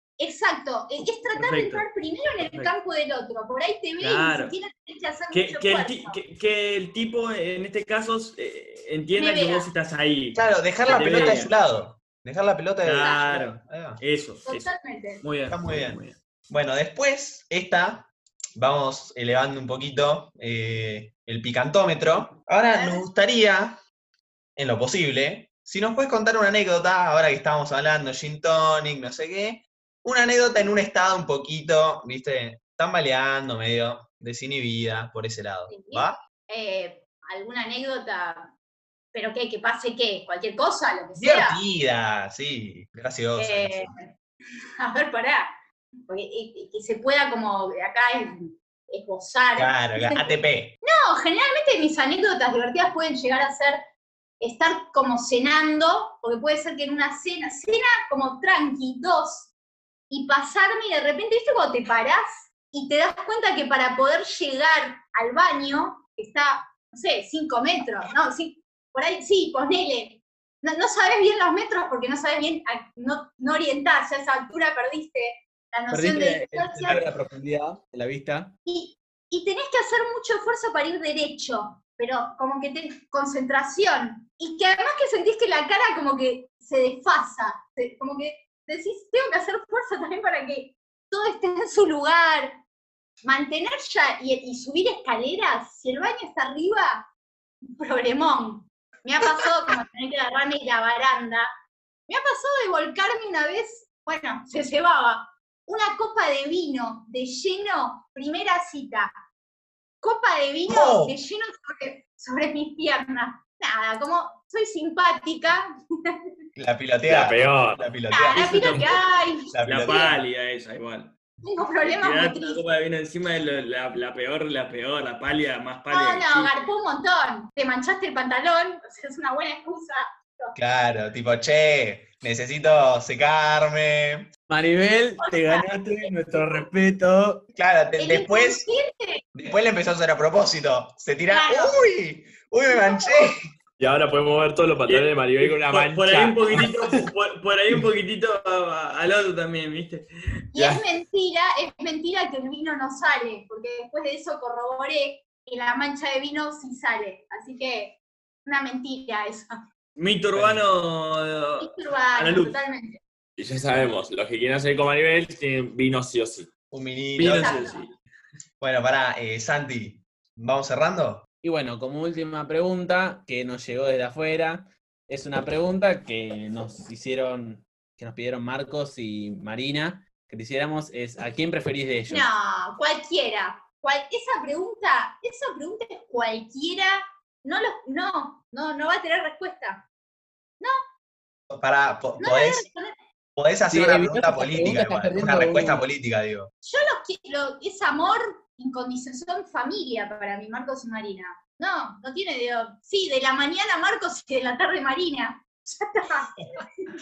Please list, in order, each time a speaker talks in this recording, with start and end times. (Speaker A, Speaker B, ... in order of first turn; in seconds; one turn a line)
Speaker A: 0.2-6.2
Speaker B: 1.4-1.9
Speaker B: 2.4-2.7
Speaker B: 4.0-4.5
Speaker B: 5.3-11.5
Speaker A: 9.2-9.7
Speaker C: 10.3-14.0
Speaker A: 10.8-11.5
Speaker B: 12.8-14.7
Speaker A: 13.0-13.4
Speaker A: 14.5-15.2
Speaker B: 15.2-16.2
Speaker C: 15.5-23.8
Speaker A: 22.7-23.1
Speaker C: 24.6-36.1
Speaker A: 35.7-38.5
Speaker A: 39.1-41.6
Speaker C: 41.2-43.9
Speaker A: 43.4-44.1
Speaker A: 44.8-45.5
Speaker A: 46.1-53.8
Speaker C: 49.6-50.8
Speaker A: 54.4-59.5
Speaker A: 60.1-77.0
Speaker D: 75.9-78.5
Speaker A: 78.7-92.6
Speaker A: 93.2-97.1
Speaker A: 97.8-101.5
Speaker A: 102.1-109.1
Speaker A: 110.0-116.2
Speaker C: 110.7-111.1
Speaker C: 116.6-119.0
Speaker E: 117.1-118.0
Speaker A: 118.1-120.2
Speaker B: 118.4-119.0
Speaker C: 119.5-120.2
Speaker B: 119.6-121.1
Speaker A: 121.4-122.7
Speaker B: 121.9-126.5
Speaker A: 125.9-130.6
Speaker C: 130.6-134.3
Speaker D: 134.5-137.5
Speaker A: 135.2-135.7
Speaker C: 137.5-138.7
Speaker A: 138.0-139.2
Speaker C: 139.3-143.4
Speaker A: 141.3-141.8
Speaker A: 142.7-143.3
Speaker E: 143.8-146.7
Speaker B: 144.9-150.1
Speaker A: 150.5-159.6
Speaker B: 160.0-162.6
Speaker A: 161.6-163.0
Speaker E: 163.4-166.5
Speaker C: 166.7-167.7
Speaker B: 167.2-167.9
Speaker A: 167.2-167.8
Speaker C: 168.6-171.3
Speaker D: 171.4-182.3
Speaker A: 182.1-189.8
Speaker C: 191.5-192.7
Speaker A: 192.2-192.9
Speaker C: 193.4-196.5
Speaker D: 193.7-195.8
Speaker A: 196.6-206.9